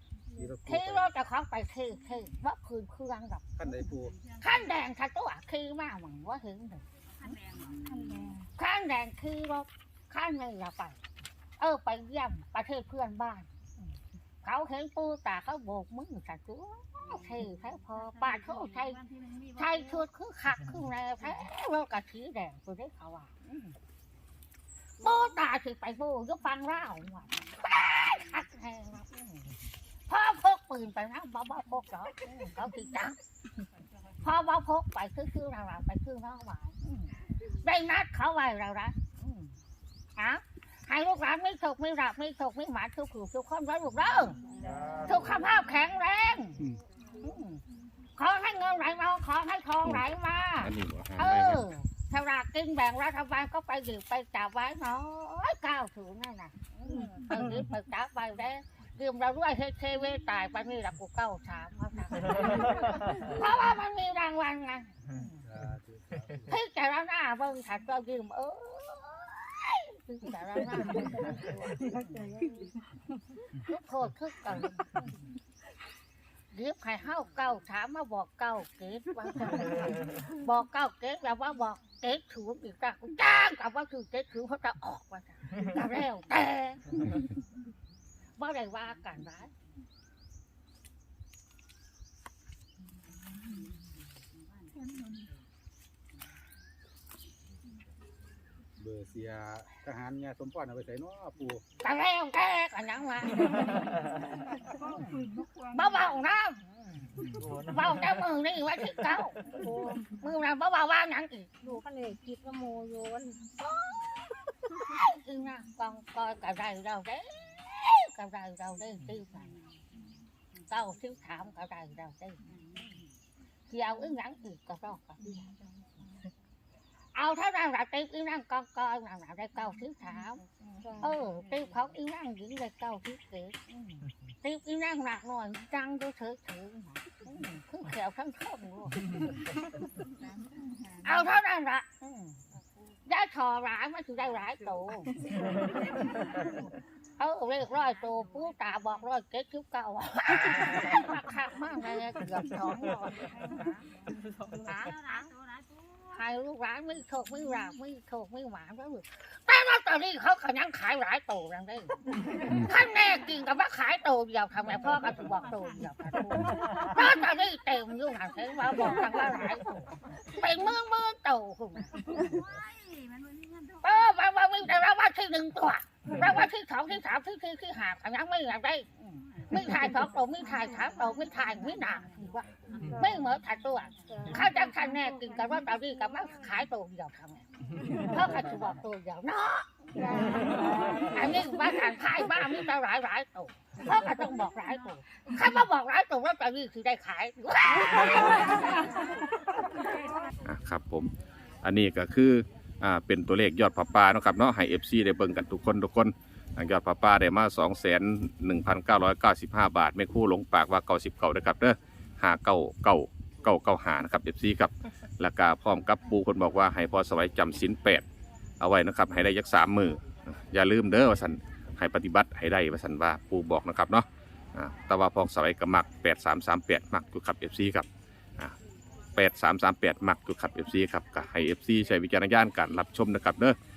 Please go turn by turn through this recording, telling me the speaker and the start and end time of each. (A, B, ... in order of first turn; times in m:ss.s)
0:00.4-0:01.1 A
0:00.6-0:03.5 B
0:03.6-0:04.1 A
0:04.4-0:06.8 B
0:07.2-0:08.0 C
0:07.6-0:08.2 A
0:07.9-0:08.4 D
0:08.6-0:11.0 B
0:11.6-0:13.5 B
0:14.4-0:19.0 B
0:18.0-0:20.0 C
0:19.6-0:23.7 B
0:25.0-0:29.5 B
0:30.1-0:33.2 B
0:34.2-0:39.5 B
0:40.2-0:44.4 B
0:44.5-0:45.2 D
0:45.0-0:46.6 B
0:47.2-0:47.6 B
0:48.2-1:05.4 B
0:50.6-0:51.6 E
1:05.4-1:06.5 A
1:06.5-1:12.3 B
1:11.0-1:12.8 D
1:13.5-1:15.1 B
1:16.5-1:27.3 B
1:28.4-1:29.5 B
1:38.8-1:41.6 A
1:41.8-1:51.5 B
1:49.5-1:50.0 D
1:51.6-1:53.5 D
1:53.6-1:59.5 B
2:00.7-2:02.4 B
2:03.7-2:05.5 B
2:07.1-2:10.4 B
2:10.8-2:11.2 D
2:11.0-2:19.2 B
2:20.2-2:20.9 C
2:21.0-2:22.4 B
2:23.0-2:25.2 B
2:25.4-2:26.7 C
2:27.2-2:33.7 B
2:33.5-2:36.1 C
2:34.6-2:35.3 B
2:36.1-2:52.2 B
2:52.1-2:54.0 C
2:53.8-3:07.4 B
2:59.3-3:01.3 C
3:02.5-3:03.3 C
3:03.9-3:04.5 C
3:04.1-3:04.4 D
3:08.0-3:10.4 B
3:10.0-3:11.2 D
3:11.1-3:19.0 B
3:20.4-3:21.1 E
3:21.6-3:38.0 E
3:38.6-3:47.9 E
3:49.2-3:53.6 E